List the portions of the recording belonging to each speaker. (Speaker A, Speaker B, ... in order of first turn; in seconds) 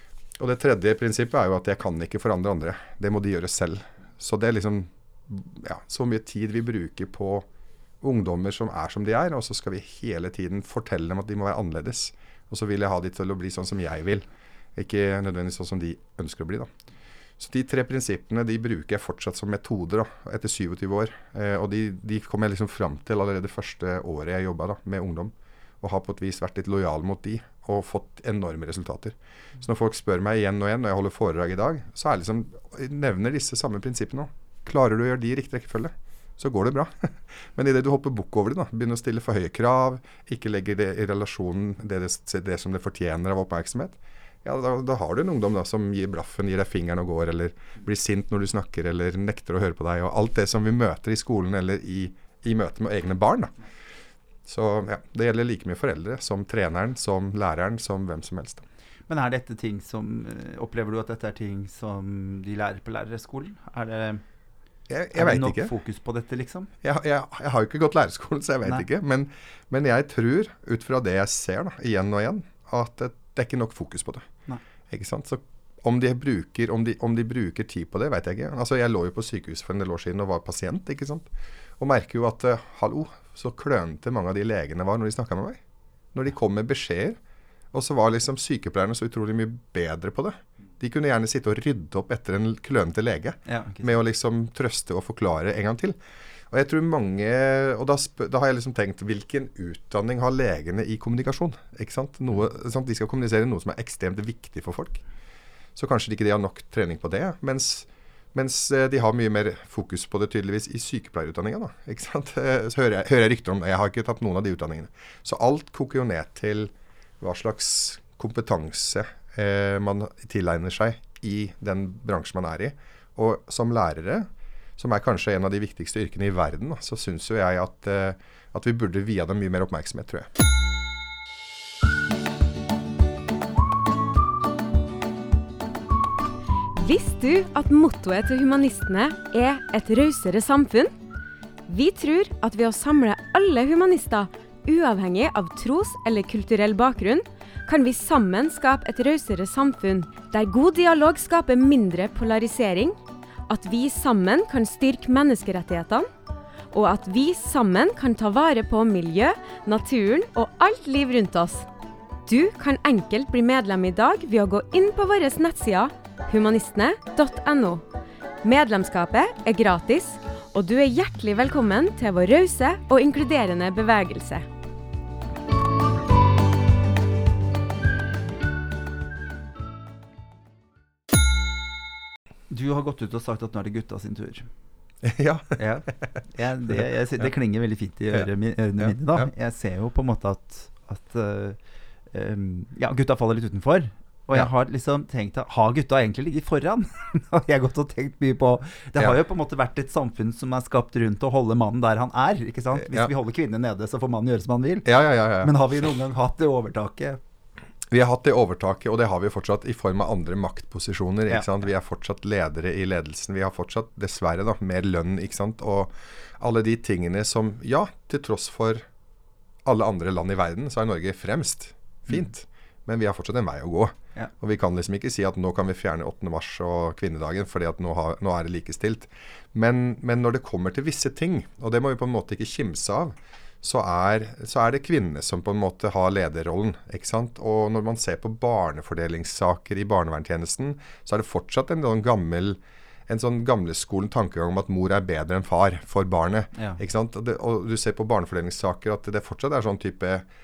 Speaker A: 0.4-7.5, 8.0-16.7, 17.4-53.5, 54.5-58.6, 64.9-65.7, 66.8-74.3, 74.9-81.3, 81.8-85.6, 86.1-87.2, 87.7-96.0, 96.5-105.0, 105.8-130.3, 185.0-185.9, 188.1-189.3, 202.8-203.1, 204.8-205.5, 207.9-218.8, 219.6-250.3
Speaker B: 59.1-64.2, 65.1-66.7, 93.5-93.9, 182.5-184.5, 185.6-191.6, 192.1-207.2, 246.6-246.8
Speaker C: 136.8-140.9, 141.7-152.9, 153.5-156.1, 156.7-161.7, 162.2-167.8, 168.4-174.5